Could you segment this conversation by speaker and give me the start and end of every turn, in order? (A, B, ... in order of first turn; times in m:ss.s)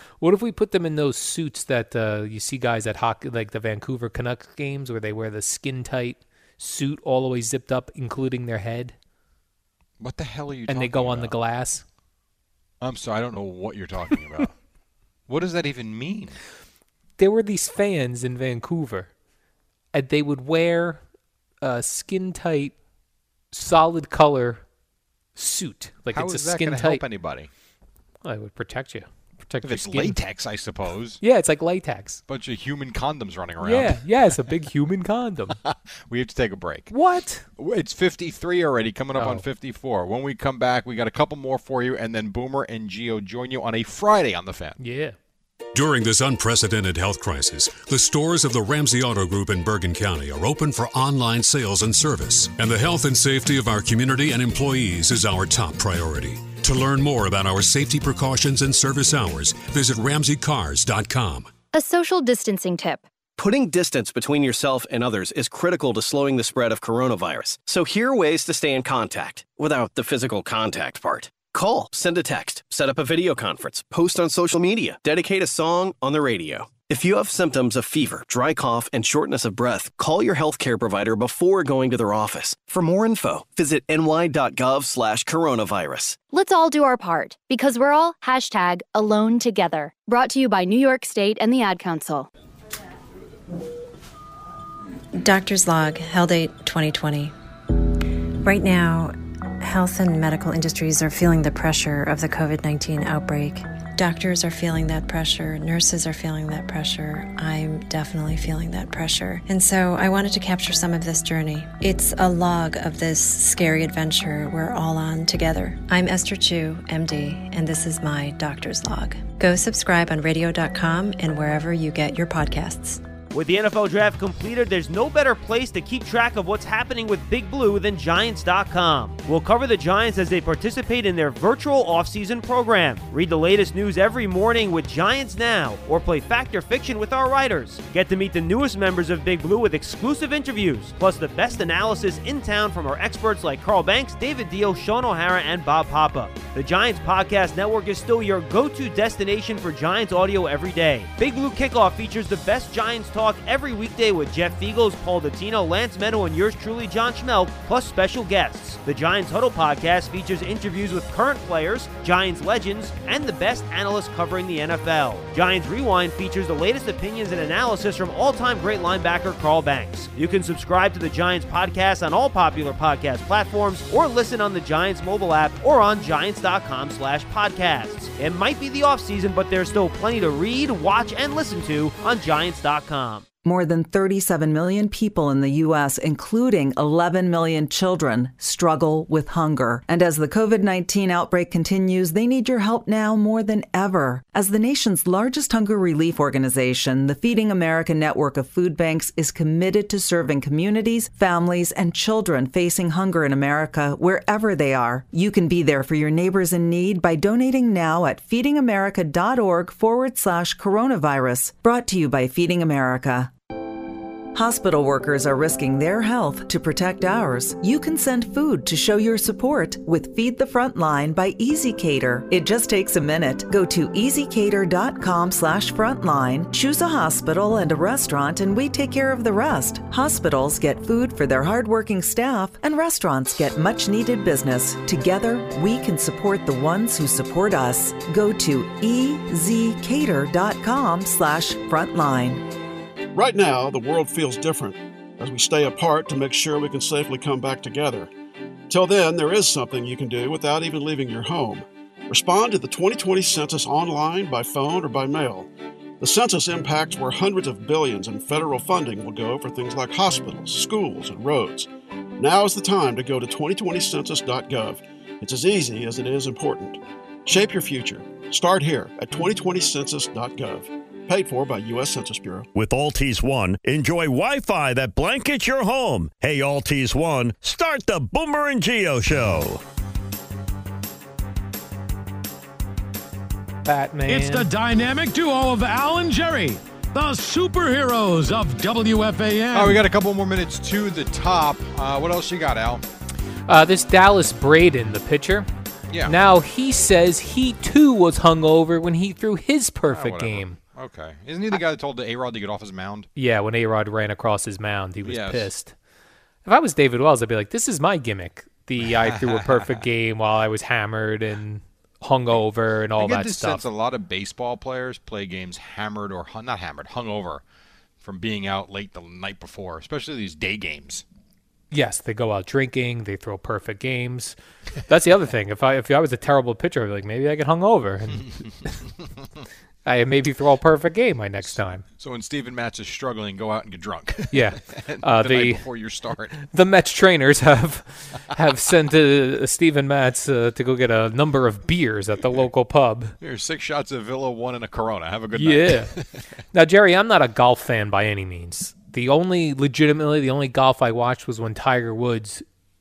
0:00.2-0:08.9 A
0:10.0-0:11.4 B
0:10.7-0:11.8 A
0:12.8-0:14.5 B
0:15.3-0:16.4 B
0:17.2-0:19.1 A
0:19.9-0:21.0 A
0:21.6-0:22.8 A
0:23.5-0:24.6 A
0:25.4-0:27.0 A
0:26.1-0:27.5 B
0:28.2-0:30.2 A
0:29.6-0:31.2 B
0:31.2-0:32.2 A
0:32.3-0:34.0 B
0:33.6-0:35.6 A
0:35.6-0:36.9 B
0:36.9-0:37.4 A
0:37.6-0:44.8 B
0:39.2-0:39.4 A
0:44.8-0:45.2 A
0:45.7-1:01.6 C
1:01.7-1:03.0 D
1:03.4-1:26.2 E
1:26.3-1:32.3 D
1:35.2-1:37.3 F
1:38.4-2:03.0 F
2:03.3-3:03.2 G
3:03.4-3:33.3 H
3:34.3-4:02.4 H
4:03.1-4:08.1 I
4:08.7-4:15.5 I
4:16.0-4:21.7 I
4:22.2-4:32.5 I
4:32.5-4:39.6 J
4:43.6-4:44.5 A
4:44.1-4:49.8 K
4:49.5-4:52.8 B
4:53.5-4:55.5 A
4:55.9-4:56.1 B
4:56.0-5:00.6 A
4:59.9-5:03.1 B
5:03.2-5:05.7 A
5:05.0-5:05.5 B
5:06.4-5:13.6 A
5:09.1-5:09.7 B
5:13.0-5:17.4 B
5:18.0-5:21.0 B
5:21.7-5:24.4 A
5:24.9-5:28.7 A
5:29.8-5:31.8 A
5:31.4-5:36.4 B
5:34.3-5:35.7 A
5:36.4-5:43.1 A
5:43.2-5:46.1 B
5:45.3-5:45.9 A
5:46.5-5:52.4 A